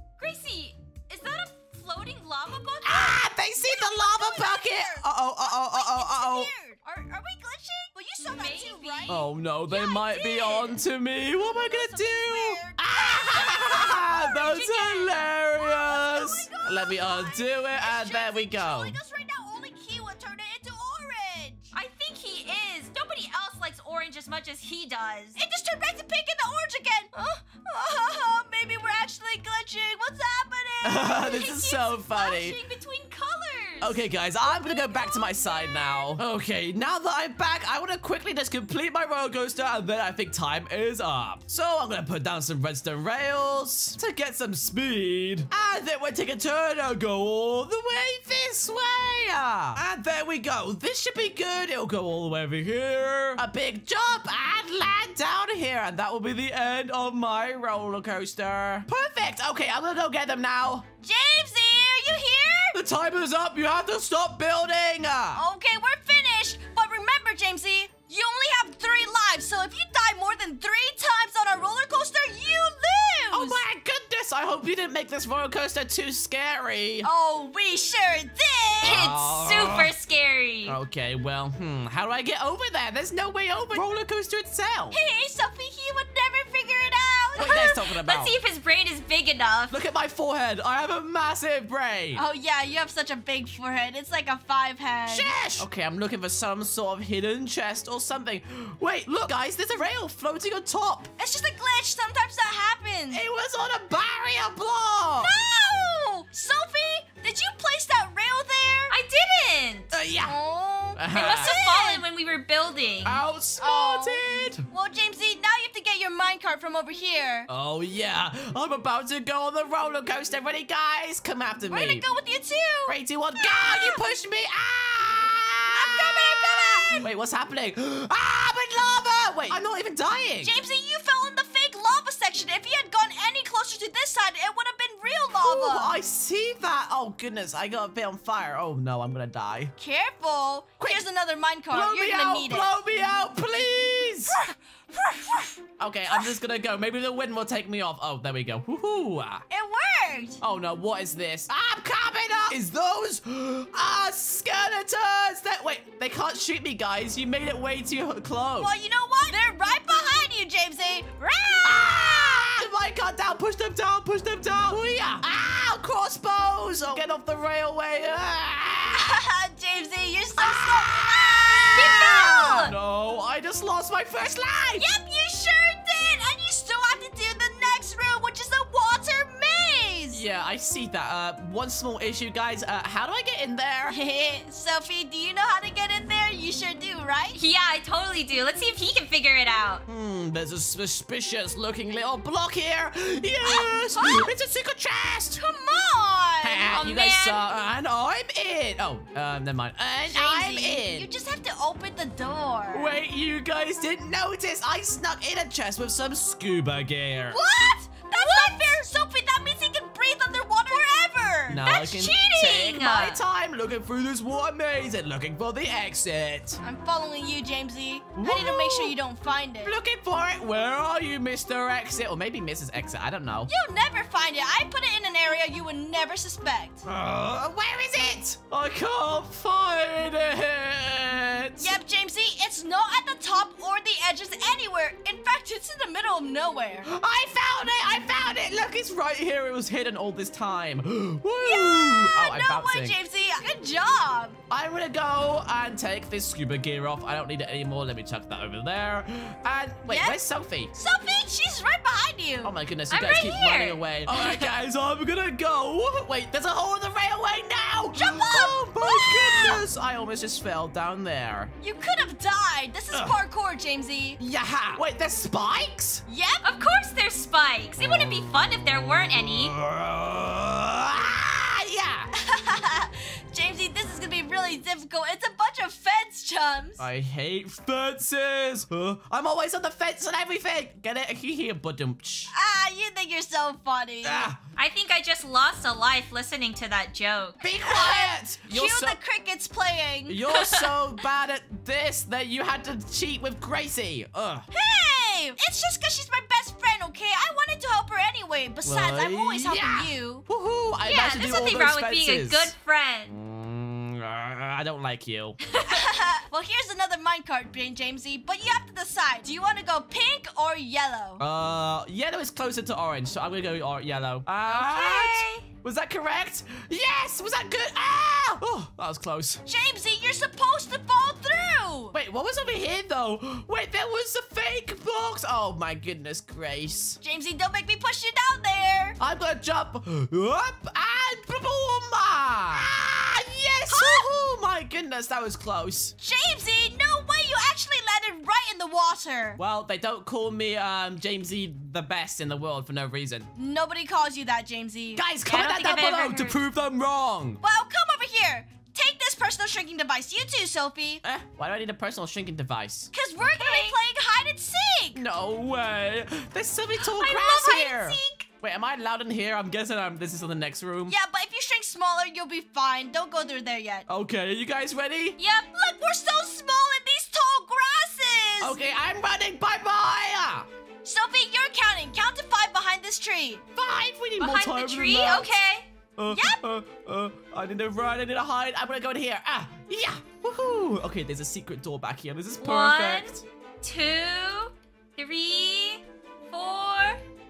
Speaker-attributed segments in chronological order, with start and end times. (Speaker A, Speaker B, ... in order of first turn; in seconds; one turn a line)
Speaker A: 0.2-3.2
Speaker B: 2.8-6.5
Speaker C: 3.5-10.8
Speaker A: 8.2-9.1
Speaker B: 9.1-18.9
Speaker C: 11.3-21.7
Speaker A: 13.8-15.2
Speaker A: 21.7-25.4
Speaker C: 25.4-32.5
Speaker B: 30.8-32.6
Speaker A: 32.1-34.0
Speaker B: 33.8-60.9
Speaker C: 34.4-36.1
Speaker C: 61.0-62.8
Speaker B: 62.7-65.4
Speaker C: 65.3-73.6
Speaker B: 73.3-77.1
Speaker C: 77.0-79.1
Speaker B: 78.8-79.9
Speaker A: 78.8-80.8
Speaker B: 80.7-85.0
Speaker C: 84.9-87.7
Speaker B: 87.4-88.4
Speaker A: 87.4-89.8
Speaker B: 89.7-92.2
Speaker C: 92.2-95.6
Speaker B: 95.1-101.1
Speaker C: 101.2-103.2
Speaker B: 103.1-105.3
Speaker C: 105.2-108.9
Speaker A: 108.9-109.9
Speaker B: 109.9-110.4
Speaker C: 110.2-112.0
Speaker B: 111.0-111.5
Speaker A: 111.1-113.2
Speaker B: 113.0-114.7
Speaker C: 113.6-117.5
Speaker B: 117.5-122.0
Speaker C: 121.7-124.0
Speaker B: 122.9-130.5
Speaker C: 125.7-127.1
Speaker C: 130.4-135.9
Speaker B: 135.4-139.7
Speaker C: 139.8-142.8
Speaker B: 141.7-144.4
Speaker C: 144.4-146.3
Speaker B: 145.8-149.4
Speaker C: 149.5-150.4
Speaker B: 150.4-158.7
Speaker C: 158.6-162.7
Speaker B: 161.6-169.2
Speaker C: 168.9-172.7
Speaker B: 170.4-174.9
Speaker A: 171.8-172.8
Speaker C: 174.8-180.2
Speaker B: 180.1-183.9
Speaker C: 183.9-187.4
Speaker A: 187.4-189.8
Speaker B: 189.9-195.4
Speaker C: 193.4-194.3
Speaker C: 195.4-196.8
Speaker B: 196.4-201.1
Speaker A: 196.7-197.5
Speaker C: 200.1-202.9
Speaker B: 202.7-207.4
Speaker C: 207.3-211.8
Speaker B: 208.2-208.6
Speaker B: 211.5-216.6
Speaker A: 211.6-213.2
Speaker C: 216.6-219.8
Speaker B: 218.2-218.9
Speaker B: 219.6-223.5
Speaker C: 223.5-226.8
Speaker B: 226.9-231.7
Speaker C: 231.6-236.9
Speaker B: 236.8-242.9
Speaker C: 241.4-244.4
Speaker B: 244.5-250.7
Speaker C: 249.9-250.2
Speaker C: 250.7-252.5
Speaker B: 252.4-261.5
Speaker A: 252.9-254.1
Speaker C: 257.9-259.6
Speaker C: 261.6-264.2
Speaker B: 262.9-263.2
Speaker B: 264.2-266.0
Speaker C: 266.1-266.5
Speaker A: 266.4-269.5
Speaker B: 269.3-272.1
Speaker C: 272.1-276.8
Speaker B: 276.8-282.3
Speaker C: 282.3-284.3
Speaker B: 284.0-284.4
Speaker A: 284.6-287.4
Speaker B: 287.4-289.0
Speaker C: 287.6-290.2
Speaker B: 290.1-294.4
Speaker C: 294.5-300.2
Speaker B: 298.6-302.5
Speaker A: 300.8-303.1
Speaker B: 303.1-305.4
Speaker C: 305.6-311.2
Speaker B: 311.2-319.4
Speaker A: 314.4-315.5
Speaker C: 319.4-321.9
Speaker B: 321.9-327.0
Speaker C: 327.0-329.0
Speaker B: 329.0-335.9
Speaker C: 333.7-334.1
Speaker C: 336.0-339.4
Speaker B: 339.4-343.3
Speaker C: 343.4-346.4
Speaker B: 344.9-347.4
Speaker C: 347.4-351.0
Speaker B: 351.0-352.9
Speaker C: 352.9-355.0
Speaker A: 353.4-353.8
Speaker B: 354.9-360.9
Speaker A: 356.8-358.2
Speaker C: 360.9-363.9
Speaker B: 363.9-365.2
Speaker C: 365.2-368.6
Speaker B: 368.4-370.5
Speaker C: 370.8-373.4
Speaker B: 373.6-375.3
Speaker A: 374.2-375.7
Speaker B: 376.0-383.2
Speaker C: 376.1-376.4
Speaker A: 382.4-387.0